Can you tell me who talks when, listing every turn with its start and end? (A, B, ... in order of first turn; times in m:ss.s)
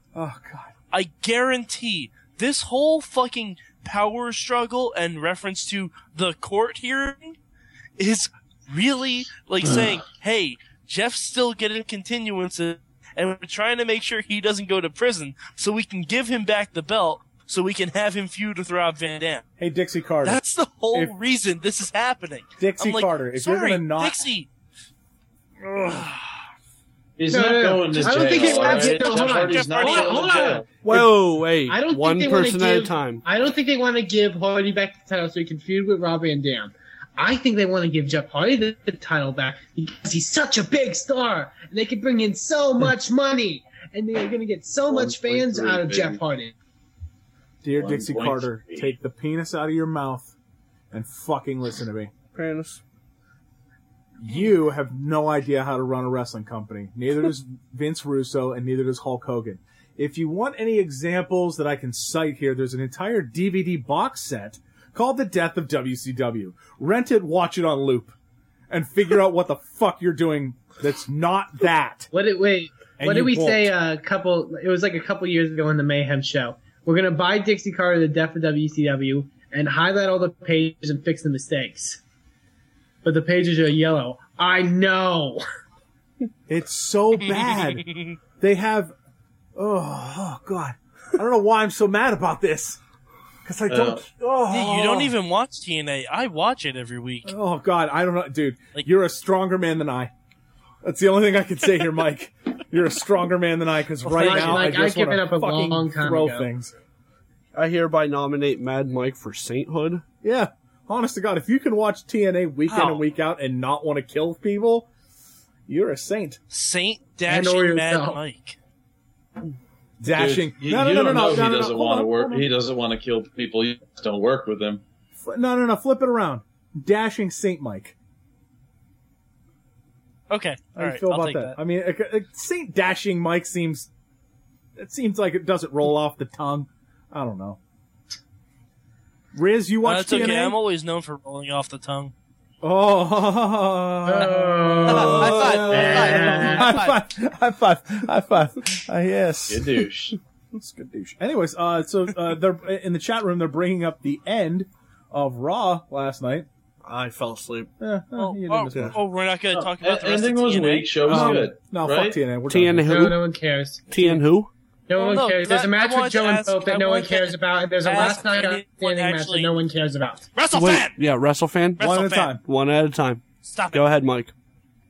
0:00.1-0:00.7 A
0:00.9-0:07.4 B
0:08.0-0:19.4 B
0:19.6-0:20.4 A
0:20.2-0:24.5 B
0:22.6-0:24.3 A
0:25.6-0:26.2 A
0:27.2-0:30.7 C
0:27.3-0:30.6 D
0:28.0-0:30.3 B
0:30.8-0:33.2 E
0:31.7-0:46.5 D
0:44.9-0:46.2 C
0:47.6-0:50.3 A
0:47.8-0:48.9 C
0:50.9-0:52.1 A
0:52.3-0:52.8 E
0:54.2-1:08.1 A
1:08.7-1:12.1 A
1:12.1-1:22.0 D
1:13.0-1:13.7 A
1:23.0-1:25.4 D
1:26.5-1:27.9 A
1:27.5-1:28.0 B
1:28.4-1:28.9 A
1:29.6-1:32.8 A
1:33.4-1:35.1 A
1:33.7-1:34.0 C
1:34.5-1:37.3 B
1:37.2-1:40.1 A
1:40.8-1:46.7 A
1:44.1-1:46.5 D
1:44.1-1:44.6 B
1:47.5-1:50.0 E
1:50.2-1:54.9 A
1:52.7-1:53.0 B
1:55.7-1:56.4 A
1:56.5-1:58.6 B
1:57.3-1:58.2 D
2:00.0-2:02.5 A
2:00.1-2:04.8 C
2:05.2-2:07.9 A
2:10.3-2:11.6 B
2:10.7-2:13.9 A
2:14.8-2:17.6 A
2:19.3-2:20.6 A
2:19.8-2:22.1 B
2:22.6-2:29.9 A
2:24.0-2:26.6 D
2:24.9-2:26.4 C
2:24.9-2:27.0 B
2:29.5-2:30.2 C
2:30.5-2:36.5 A
2:36.8-2:37.7 E
2:37.8-2:39.0 A
2:38.2-2:41.0 B
2:39.5-2:42.3 C
2:41.1-2:43.1 A
2:41.1-2:41.4 E
2:42.4-2:43.2 E
2:42.9-2:43.9 D
2:43.9-2:44.5 E
2:44.9-2:50.3 D
2:45.0-2:49.5 B
2:50.3-2:51.0 B
2:50.5-2:51.8 E
2:51.8-2:52.4 B
2:51.8-2:52.4 A
2:52.4-2:54.3 E
2:53.4-2:53.9 B